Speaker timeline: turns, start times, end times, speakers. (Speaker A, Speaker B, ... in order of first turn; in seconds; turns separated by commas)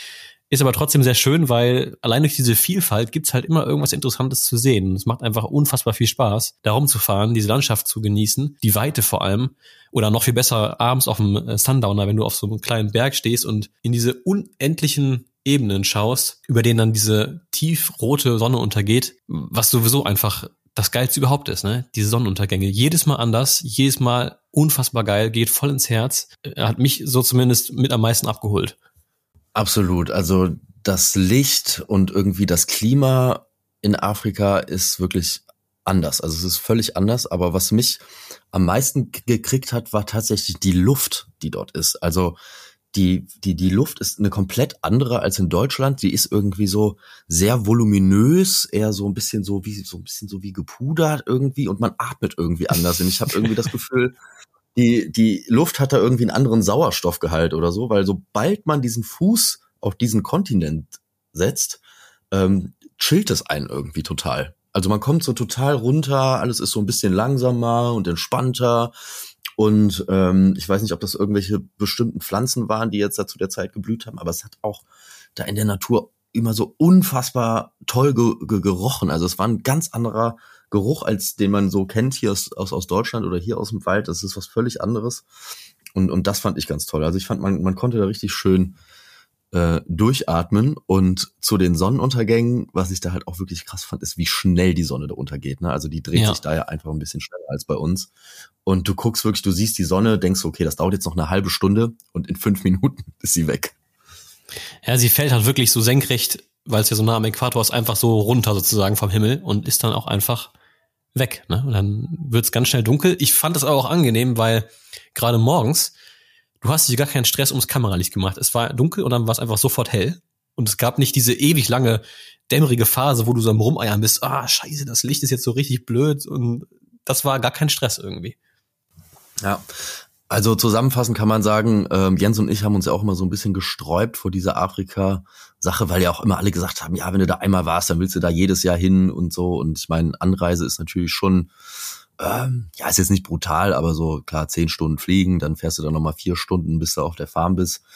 Speaker A: 0.5-28.8, Speaker B: 29.6-42.4, Speaker B: 42.9-54.2, Speaker B: 54.8-68.9, Speaker B: 69.6-74.8, Speaker B: 75.4-85.2, Speaker B: 85.9-88.8, Speaker B: 89.5-98.1, Speaker A: 96.1-96.4, Speaker B: 98.7-103.8, Speaker A: 104.8-110.5, Speaker A: 111.2-115.9, Speaker A: 116.6-128.4, Speaker B: 129.4-141.5, Speaker B: 142.2-147.8